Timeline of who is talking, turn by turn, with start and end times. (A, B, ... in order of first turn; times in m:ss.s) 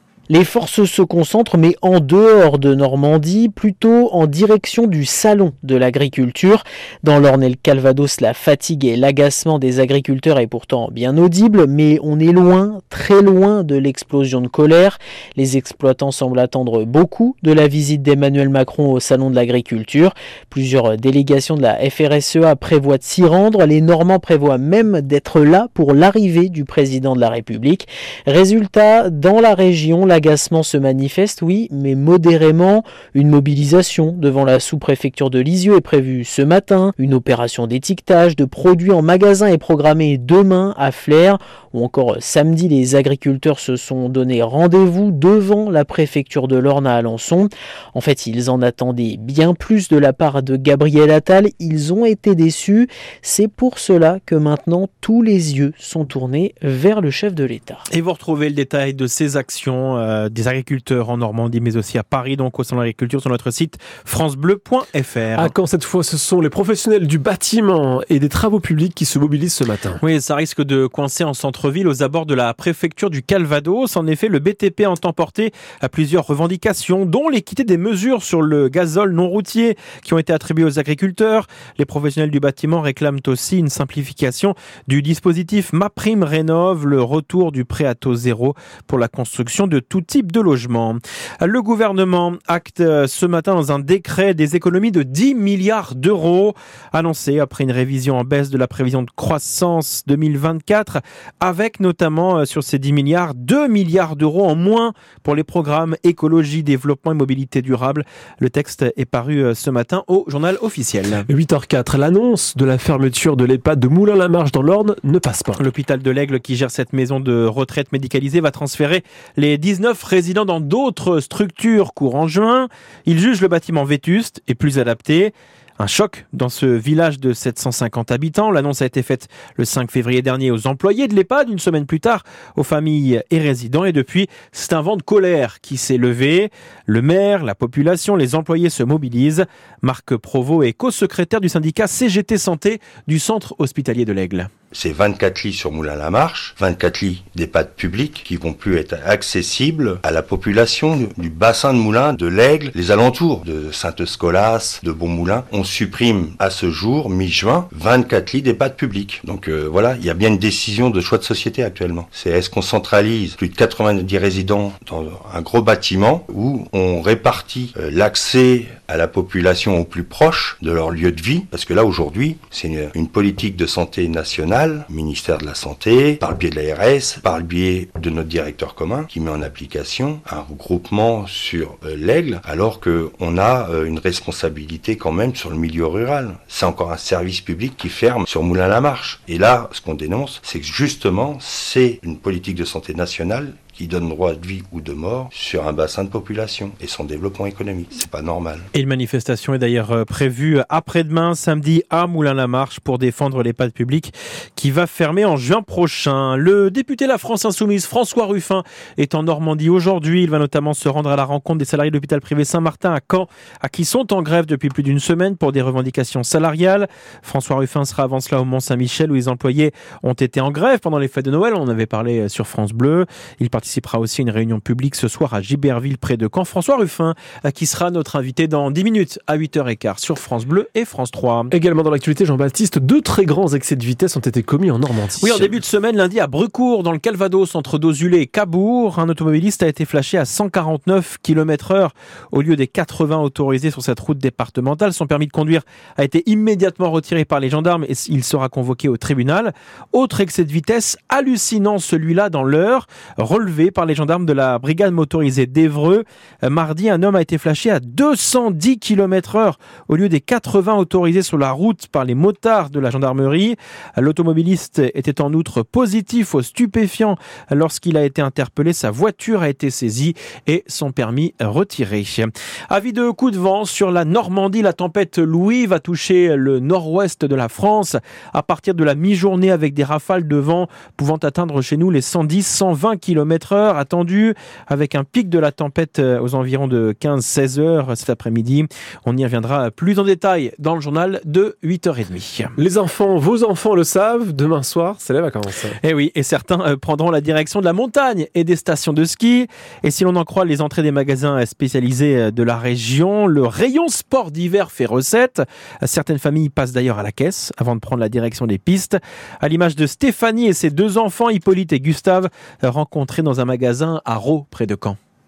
0:00.3-0:57.8 A
0:57.9-1:05.5 B
1:05.4-1:10.0 C
1:10.0-1:51.3 B
1:51.3-1:55.6 C
1:55.6-2:24.5 B
2:24.7-3:18.7 D
3:18.7-3:51.5 B
3:51.5-3:55.6 C
3:55.2-4:52.5 B
4:52.6-4:55.8 C
4:55.8-5:15.0 B